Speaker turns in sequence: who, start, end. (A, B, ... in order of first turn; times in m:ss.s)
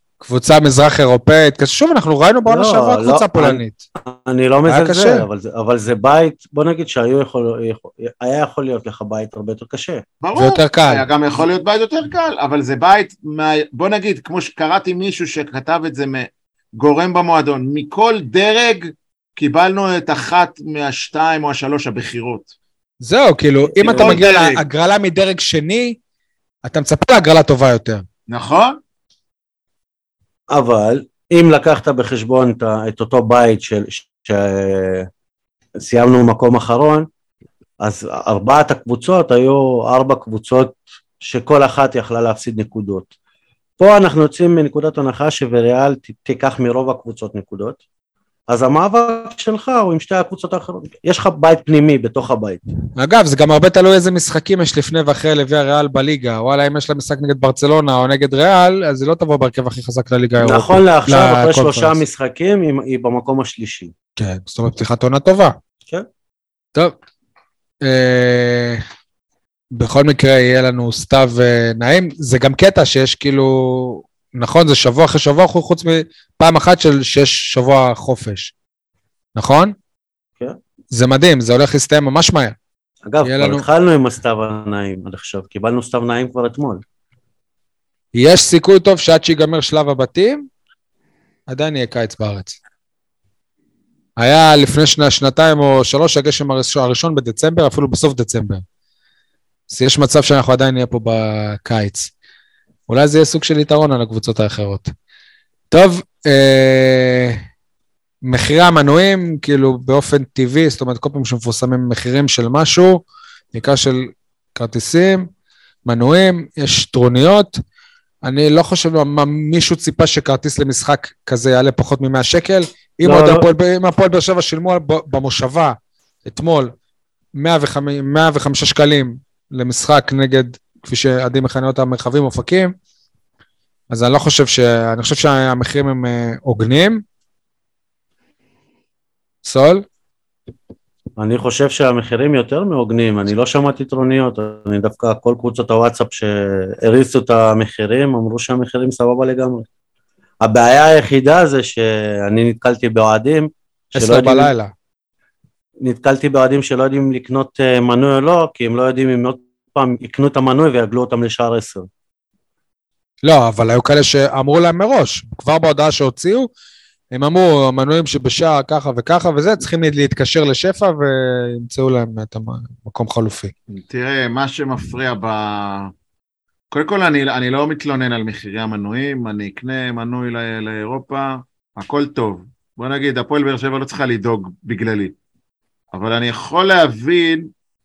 0:00.2-0:03.8 A
0:02.4-0:10.0 B
0:04.7-0:05.2 A
0:10.2-0:22.5 C
0:10.3-0:11.0 A
0:23.0-0:26.0 A
0:23.7-0:24.2 B
0:23.9-0:24.6 C
0:26.6-0:28.0 A
0:28.3-0:28.8 C
0:30.5-0:35.1 B
0:35.8-0:37.1 B
0:37.8-0:43.1 B
0:43.8-0:47.8 B
0:48.5-0:52.6 B
0:53.0-1:02.0 A
1:00.4-1:03.9 B
1:04.2-1:05.5 A
1:07.8-1:08.8 A
1:09.7-1:18.5 A
1:19.4-1:19.7 A
1:20.9-1:22.6 A
1:23.0-1:26.8 B
1:23.2-1:23.6 A
1:28.1-1:30.5 A
1:31.5-1:32.6 A
1:34.2-1:38.6 A
1:39.7-1:42.1 A
1:42.9-1:44.9 A
1:45.7-1:47.4 A
1:48.2-1:55.3 A
1:55.8-1:57.6 A
1:58.2-2:06.7 A
2:03.0-2:03.4 B
2:07.4-2:12.7 A
2:13.9-2:17.0 A
2:19.4-2:19.8 A
2:21.2-2:29.6 B
2:30.4-2:34.5 B
2:33.9-2:34.7 A
2:35.8-2:41.9 B
2:43.2-2:46.5 A
2:47.1-2:53.5 A
2:53.7-2:55.9 C
2:56.7-3:05.1 C
3:05.9-3:07.5 C